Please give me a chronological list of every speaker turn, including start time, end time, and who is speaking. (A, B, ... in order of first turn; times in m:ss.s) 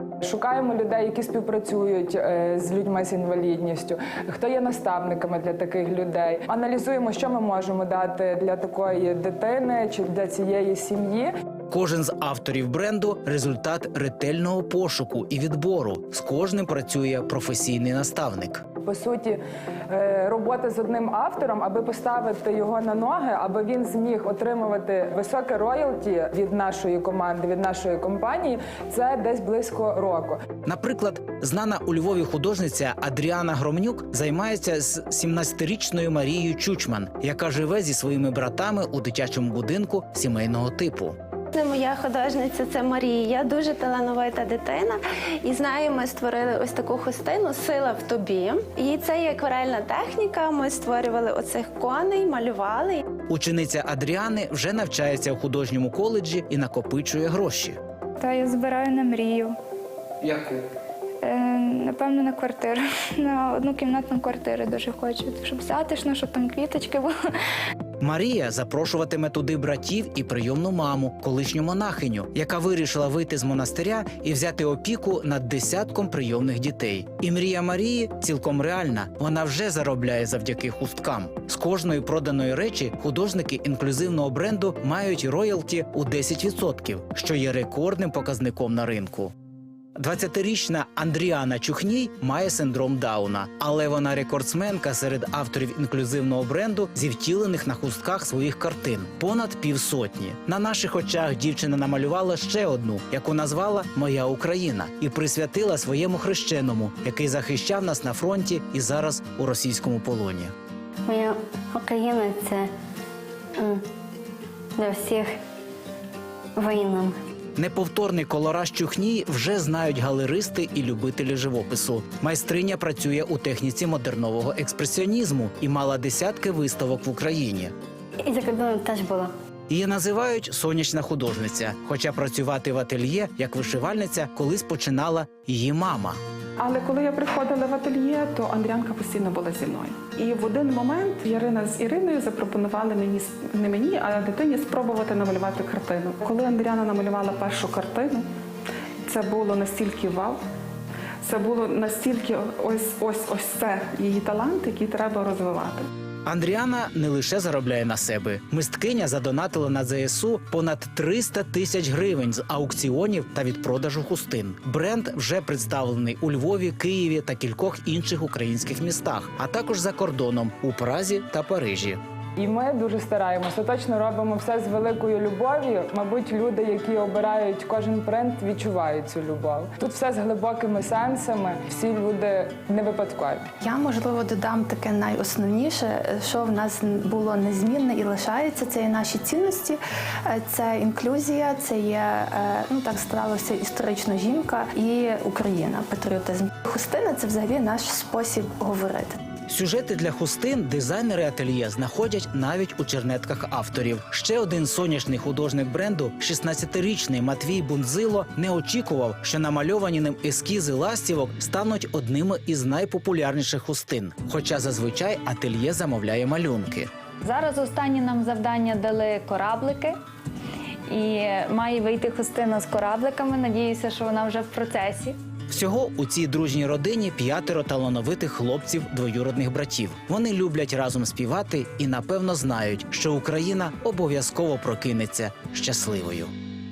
0:00.2-0:11.3 A
0:11.7-0:18.6 B
0:18.8-0:30.4 A
0:30.6-0:41.2 B
0:41.5-0:53.0 C
0:53.3-0:57.8 B
0:58.2-0:59.6 D
1:01.2-1:07.1 D
1:08.0-1:29.3 B
1:30.0-1:50.5 B
1:51.1-1:52.7 E
1:54.8-1:55.3 E
1:56.6-1:57.1 E
1:57.6-2:07.7 B
2:08.2-2:09.3 E
2:09.7-2:16.2 B
2:16.6-2:28.3 F
2:29.1-2:30.4 F
2:31.2-2:35.8 F
2:36.3-2:52.0 B
2:52.4-3:03.5 A
3:03.6-3:19.2 G
3:19.5-3:36.9 B
3:37.2-3:40.0 H
3:40.9-3:45.2 H
3:45.5-3:56.3 B